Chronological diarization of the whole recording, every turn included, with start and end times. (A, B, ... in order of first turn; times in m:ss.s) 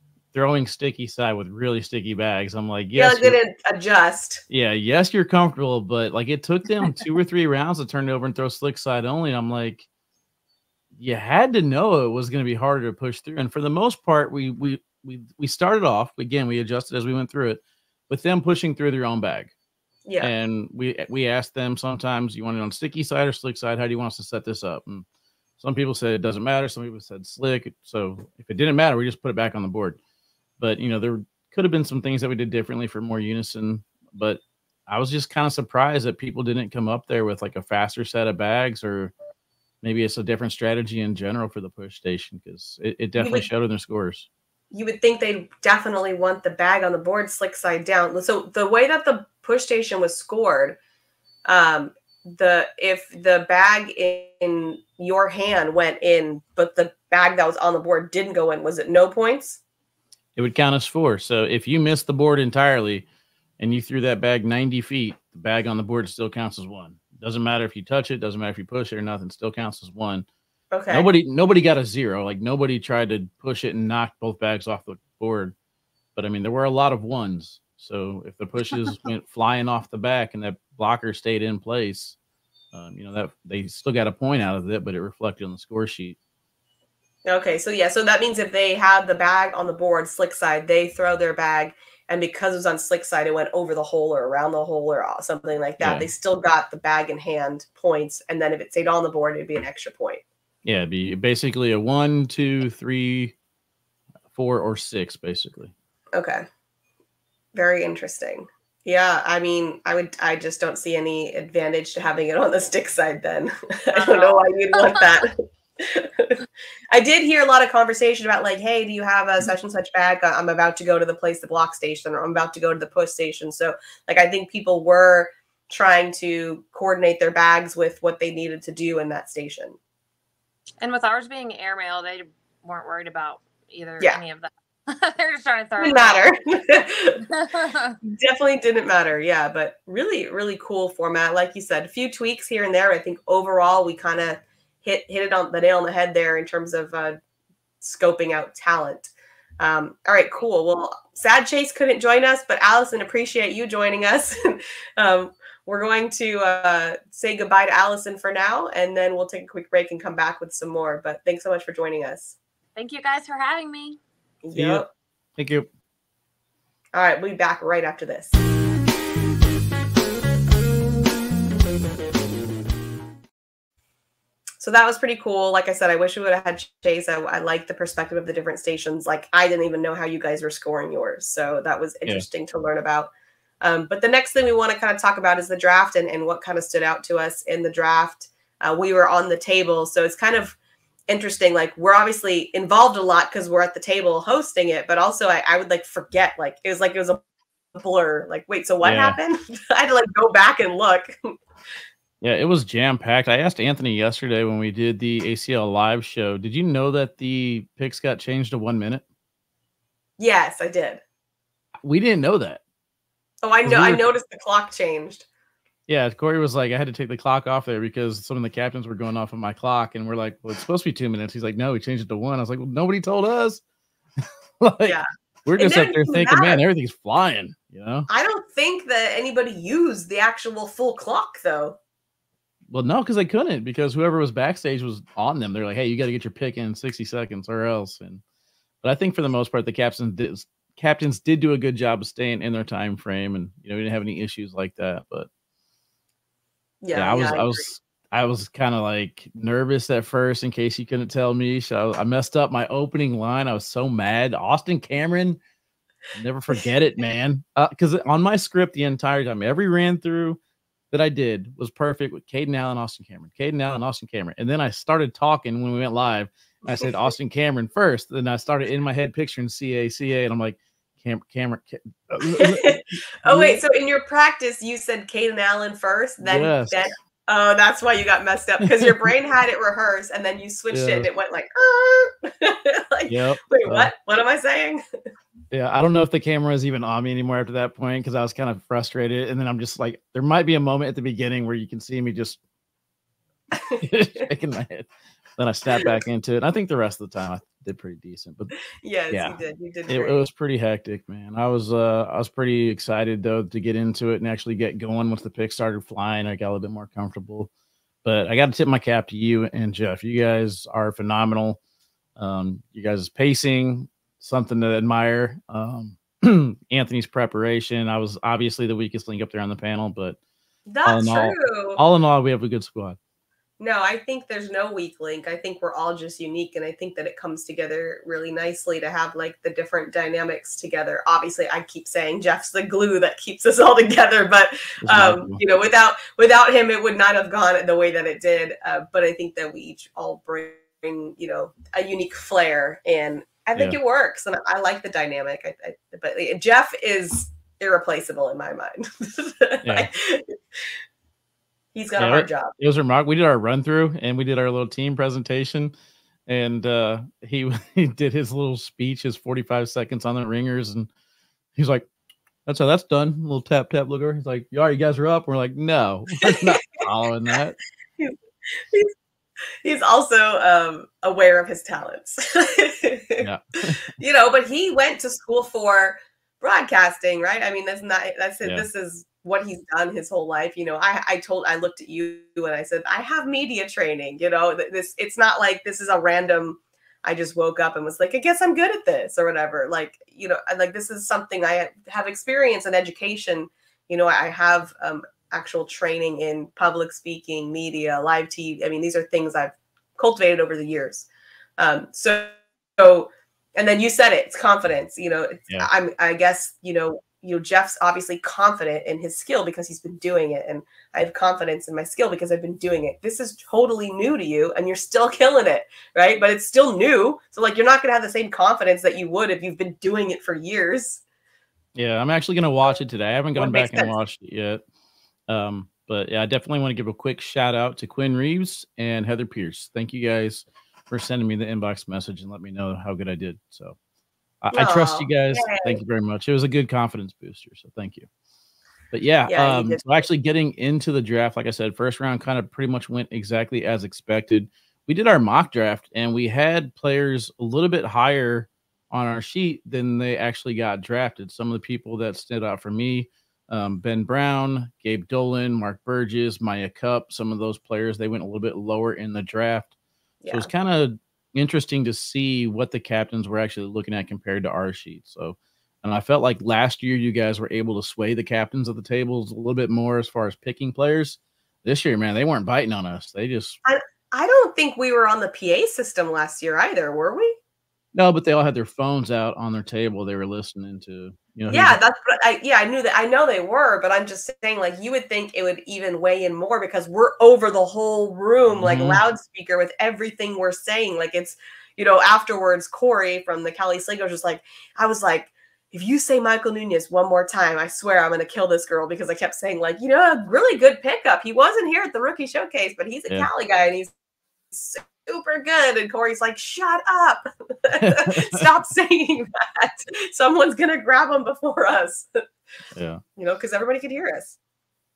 0:00.3-0:03.4 A
0:03.0-0:04.4 B
0:04.5-0:09.9 A
0:11.0-0:19.5 A
0:20.1-0:20.3 B
0:20.2-0:25.1 A
0:25.6-0:30.0 A
0:30.6-0:39.1 A
0:39.8-0:44.3 A
0:43.2-0:43.5 B
0:44.7-0:50.8 B
0:51.5-0:59.6 B
1:00.4-1:03.1 A
1:03.6-1:10.3 A
1:10.7-1:11.1 B
1:10.9-1:15.6 A
1:16.2-1:22.2 A
1:22.7-1:26.2 A
1:27.2-1:40.2 B
1:35.8-1:36.1 A
1:40.6-1:43.4 A
1:44.3-1:45.7 A
1:46.1-1:46.4 B
1:47.5-1:56.4 B
1:54.0-1:55.2 C
1:56.9-2:09.8 B
2:10.8-2:16.3 C
2:15.8-2:17.2 B
2:17.3-2:18.0 C
2:18.0-2:27.2 B
2:27.8-2:42.4 B
2:42.8-2:44.0 C
2:44.4-2:44.9 B
2:44.6-2:44.8 A
2:45.4-2:45.7 A
2:46.9-2:48.4 B
2:54.6-3:10.6 B
3:11.1-3:17.2 B
3:17.7-3:21.3 B
3:18.8-3:19.2 A
3:22.2-3:29.0 A
3:30.2-3:31.0 B
3:31.8-3:32.6 A
3:33.4-3:35.3 B
3:33.6-3:34.0 A
3:35.9-3:43.6 A
3:44.6-3:48.1 A
3:45.6-3:46.6 B
3:48.1-3:51.8 B
3:52.7-3:58.2 A
3:58.8-4:05.3 A
4:06.8-4:07.7 B
4:06.9-4:15.4 A
4:16.1-4:20.4 A
4:20.9-4:33.6 A
4:32.3-4:44.8 B
4:36.2-4:36.9 A
4:38.6-4:39.1 A
4:40.7-4:41.1 A
4:43.1-4:43.9 A
4:45.5-4:52.4 A
4:53.5-4:54.2 B
4:53.8-4:58.5 A
4:55.7-4:56.0 B
4:58.8-5:00.2 B
4:59.1-5:07.5 A
5:08.0-5:11.6 A
5:12.2-5:20.2 A
5:20.7-5:21.8 B
5:20.8-5:23.0 A
5:23.6-5:50.8 B
5:34.8-5:35.4 A
5:49.6-5:49.9 A
5:51.7-5:52.5 B
5:52.0-5:55.7 A
5:56.3-6:00.9 A
6:01.6-6:01.9 A
6:02.5-6:07.6 A
6:08.0-6:08.9 B
6:09.6-6:13.3 B
6:13.2-6:13.8 A
6:14.0-7:01.0 B
7:01.8-7:04.6 A
7:03.4-7:04.0 B
7:05.3-7:13.8 A
7:14.4-7:18.1 A
7:14.5-7:15.8 B
7:18.9-7:39.7 A
7:19.3-7:20.0 B
7:40.2-7:40.5 B
7:40.3-7:53.6 A
7:53.6-7:57.4 B
7:57.9-8:01.8 A
8:01.5-8:23.9 B
8:08.6-8:09.0 A
8:24.5-8:32.2 B
8:27.7-8:28.5 A
8:32.8-8:33.0 A
8:33.2-8:34.4 B